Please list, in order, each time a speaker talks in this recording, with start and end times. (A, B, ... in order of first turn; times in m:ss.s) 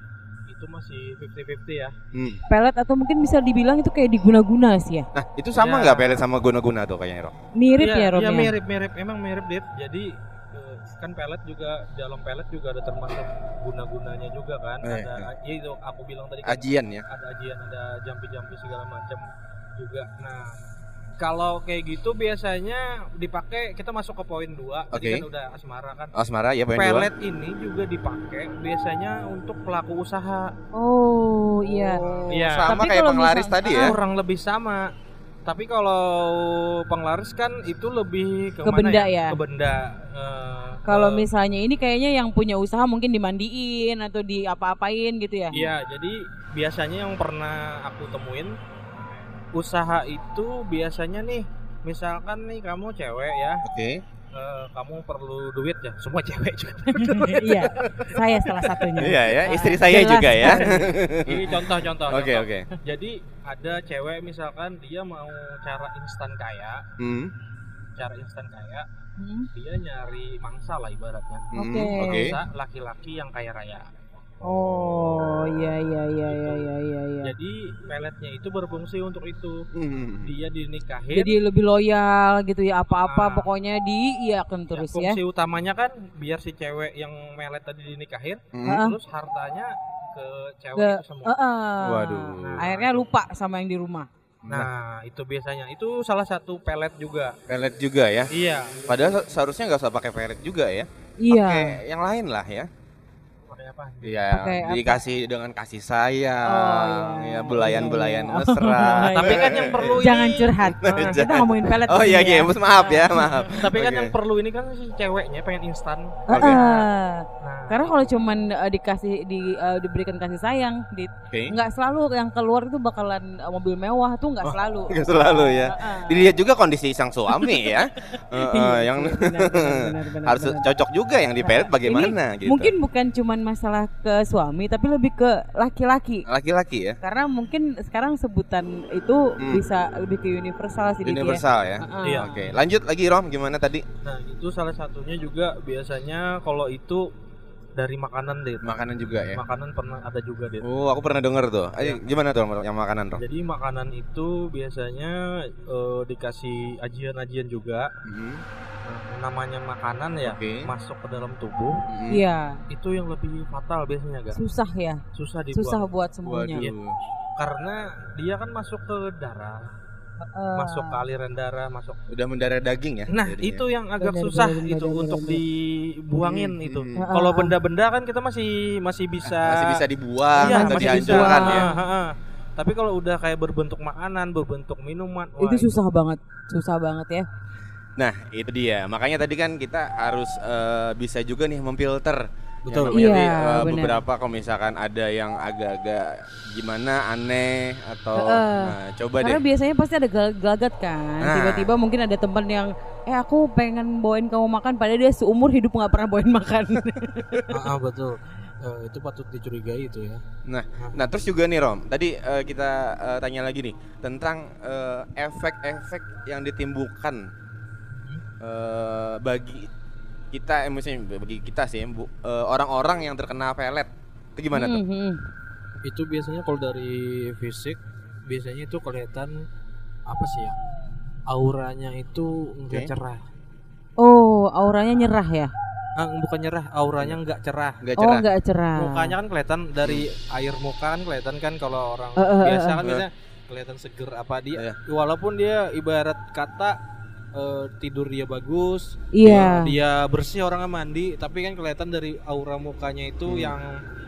0:00.5-0:02.0 A
0:02.1-0:02.4 B
0:02.5-0:05.1 C
0:05.1-0:07.3 B
0:05.6-0:06.2 A
0:07.6-0:08.5 C
0:07.8-0:19.2 A
0:14.8-0:15.3 B
0:16.4-0:17.0 B
0:19.8-0:20.6 A
0:21.2-0:26.1 A
0:24.9-0:25.2 B
0:26.1-0:27.1 B
0:26.7-0:30.5 A
0:30.7-0:34.0 C
0:31.6-0:32.8 A
0:32.3-0:34.0 B
0:33.6-0:34.8 A
0:35.4-0:41.3 A
0:38.6-0:39.4 C
0:40.9-0:45.7 C
0:45.5-0:48.6 A
0:49.5-0:53.6 A
0:53.6-0:54.0 B
0:54.3-0:58.2 A
0:56.9-1:00.8 C
0:58.9-1:02.7 B
1:00.4-1:06.8 A
1:07.0-1:07.3 B
1:08.0-1:08.8 A
1:09.2-1:09.5 C
1:09.5-1:13.9 A
1:11.5-1:12.4 B
1:11.5-1:12.3 C
1:14.4-1:17.3 C
1:14.5-1:15.5 B
1:16.2-1:16.7 A
1:17.2-1:19.6 A
1:19.7-1:20.3 B
1:20.2-1:21.4 A
1:21.1-1:25.2 C
1:23.0-1:23.5 A
1:24.7-1:31.3 A
1:28.5-1:28.8 B
1:28.6-1:29.0 C
1:30.8-1:34.1 C
1:31.8-1:32.7 B
1:32.4-1:33.1 A
1:34.4-1:34.7 B
1:34.5-1:37.4 A
1:37.5-1:38.3 B
1:38.3-1:39.2 A
1:38.9-1:42.7 B
1:41.2-1:41.8 C
1:43.5-1:44.2 A
1:44.0-1:50.0 B
1:44.3-1:45.0 C
1:46.4-1:53.5 C
1:49.0-1:51.2 A
1:50.8-1:54.1 B
1:53.5-1:56.9 A
1:56.3-1:56.6 B
1:56.3-2:06.3 C
1:57.4-1:58.1 A
2:01.3-2:01.6 B
2:04.4-2:12.7 B
2:07.3-2:10.7 C
2:11.4-2:16.3 C
2:16.3-2:17.0 B
2:17.0-2:22.4 C
2:21.0-2:23.8 B
2:22.0-2:22.3 A
2:24.0-2:27.0 A
2:27.8-2:28.8 A
2:28.6-2:29.4 B
2:29.3-2:30.6 A
2:30.6-2:33.2 B
2:33.1-2:37.9 A
2:38.0-2:38.4 B
2:38.8-2:41.8 A
2:40.2-2:40.7 B
2:41.9-2:42.2 B
2:42.1-2:42.6 C
2:42.7-2:44.4 A
2:44.3-2:45.0 C
2:45.1-2:45.9 A
2:45.5-2:46.7 C
2:46.2-2:47.0 B
2:47.4-2:49.6 A
2:50.2-2:51.0 C
2:50.6-2:52.0 A
2:52.1-2:53.6 B
2:53.1-2:59.8 A
2:54.0-2:55.4 C
2:56.2-2:57.0 B
2:57.0-2:57.5 C
2:59.2-3:01.6 B
3:00.4-3:05.7 A
3:00.4-3:01.8 C
3:05.4-3:07.3 C
3:08.0-3:19.4 B
3:12.7-3:13.0 A
3:12.9-3:14.0 C
3:18.2-3:27.6 C
3:21.2-3:21.7 B
3:27.5-3:30.2 A
3:30.4-3:37.3 B
3:30.8-3:31.0 A
3:37.9-3:38.2 A
3:38.4-3:39.7 B
3:40.3-3:44.8 B
3:44.5-3:45.2 C
3:45.8-3:49.4 A
3:50.1-3:50.6 A
3:51.3-3:53.2 A
3:54.0-3:55.5 C
3:56.0-3:57.8 A
3:57.8-3:58.2 B
3:58.0-3:59.1 C
3:58.8-4:06.8 A
4:02.2-4:02.8 C
4:07.3-4:13.7 A
4:09.1-4:09.7 C
4:09.2-4:09.5 B
4:13.2-4:13.5 B